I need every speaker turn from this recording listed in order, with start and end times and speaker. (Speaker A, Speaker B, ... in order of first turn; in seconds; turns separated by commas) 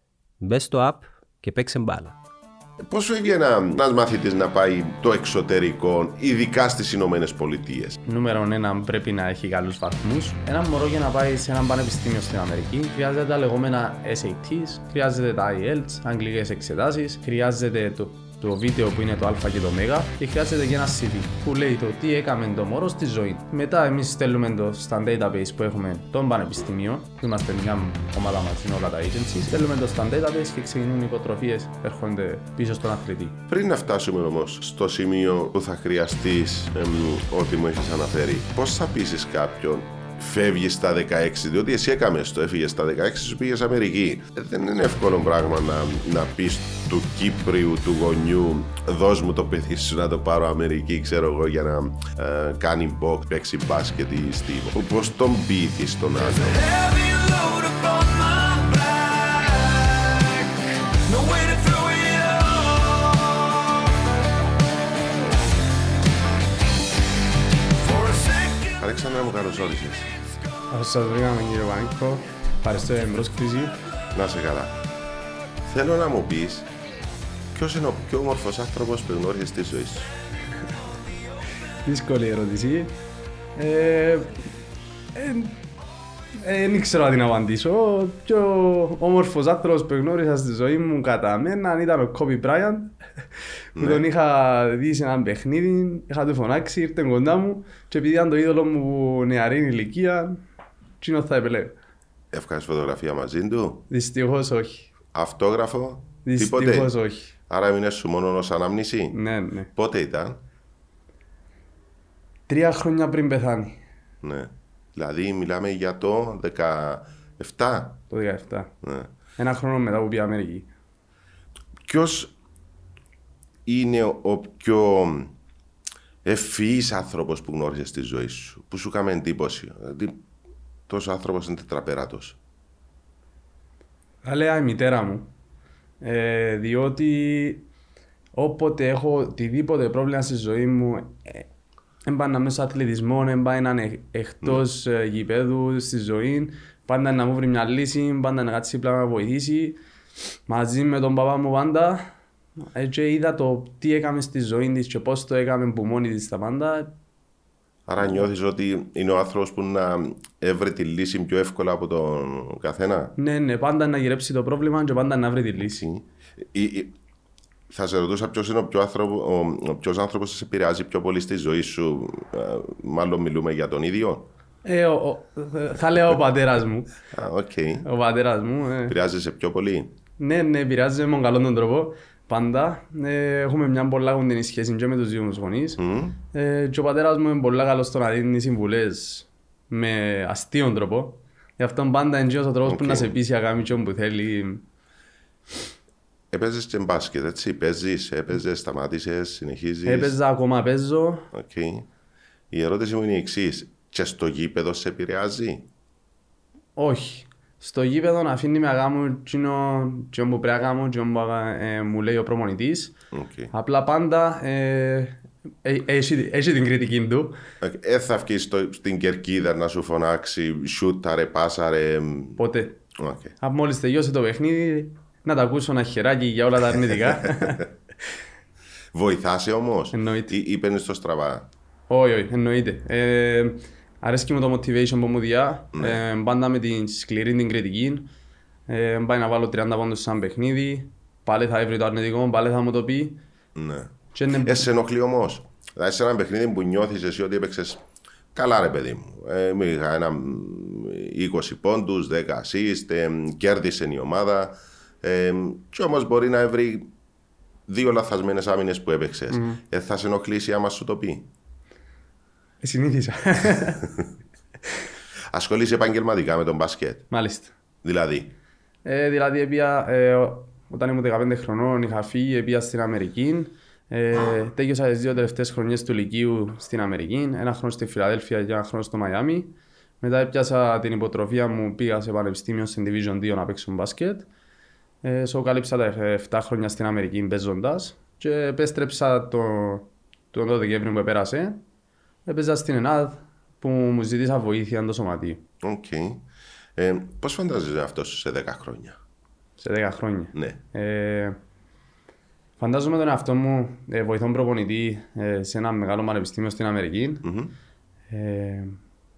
Speaker A: 0.4-2.1, Speaker B: 2.8-8.0, Speaker C: 8.1-33.4, Speaker B: 33.5-56.8, Speaker A: 56.8-60.4, Speaker A: 61.1-63.0, Speaker B: 68.5-70.1, Speaker C: 70.7-73.7, Speaker B: 74.1-74.8, Speaker B: 75.6-76.7, Speaker B: 77.5-80.1, Speaker C: 81.8-82.9, Speaker C: 83.5-84.3, Speaker C: 85.1-85.6, Speaker C: 86.4-92.9, Speaker B: 93.8-94.0, Speaker C: 93.8-100.4, Speaker C: 101.0-101.7, Speaker B: 102.3-103.8, Speaker C: 103.9-104.9, Speaker B: 105.1-106.9, Speaker C: 106.2-107.3, Speaker B: 107.5-109.1, Speaker C: 109.1-109.7, Speaker B: 109.7-110.4, Speaker C: 112.5-113.8, Speaker B: 114.2-118.0, Speaker C: 118.1-118.7, Speaker B: 118.8-119.1, Speaker C: 119.4-120.7, Speaker B: 121.8-122.3, Speaker B: 123.7-125.3, Speaker B: 126.2-130.2, Speaker B: 130.9-132.4, Speaker C: 134.2-135.3, Speaker C: 136.0-137.6, Speaker C: 138.3-141.4, Speaker C: 142.0-149.8, Speaker C: 150.5-152.1, Speaker C: 152.7-156.9, Speaker B: 157.9-163.1, Speaker C: 163.2-165.8, Speaker B: 165.6-166.9, Speaker B: 167.7-174.3, Speaker C: 174.6-176.9, Speaker B: 177.1-177.8, Speaker C: 177.8-178.9, Speaker B: 178.9-179.9, Speaker C: 180.2-185.8, Speaker B: 185.8-186.2, Speaker C: 186.3-194.6, Speaker B: 192.7-193.1, Speaker B: 196.3-200.1, Speaker C: 199.8-201.3, Speaker B: 201.3-201.9, Speaker B: 202.5-205.7, Speaker C: 206.8-212.9, Speaker B: 213.1-213.5, Speaker C: 213.5-217.3, Speaker B: 217.6-222.4, Speaker C: 222.4-222.8, Speaker B: 222.9-223.3, Speaker C: 223.4-227.7, Speaker B: 227.2-227.6, Speaker B: 228.9-231.5, Speaker C: 229.9-230.3, Speaker C: 231.9-238.1, Speaker B: 235.7-236.0, Speaker C: 238.7-243.2, Speaker B: 243.5-247.8, Speaker C: 244.1-244.6, Speaker B: 248.3-256.9, Speaker B: 257.7-261.3, Speaker C: 259.3-259.6, Speaker C: 262.6-263.9, Speaker B: 265.3-267.1, Speaker C: 267.1-267.5, Speaker B: 267.8-268.3, Speaker C: 268.8-284.2, Speaker C: 285.0-291.6, Speaker C: 292.2-295.4, Speaker B: 295.6-296.2, Speaker B: 296.8-299.0, Speaker C: 299.6-301.4, Speaker C: 302.6-307.2, Speaker B: 307.2-307.5, Speaker C: 308.1-308.8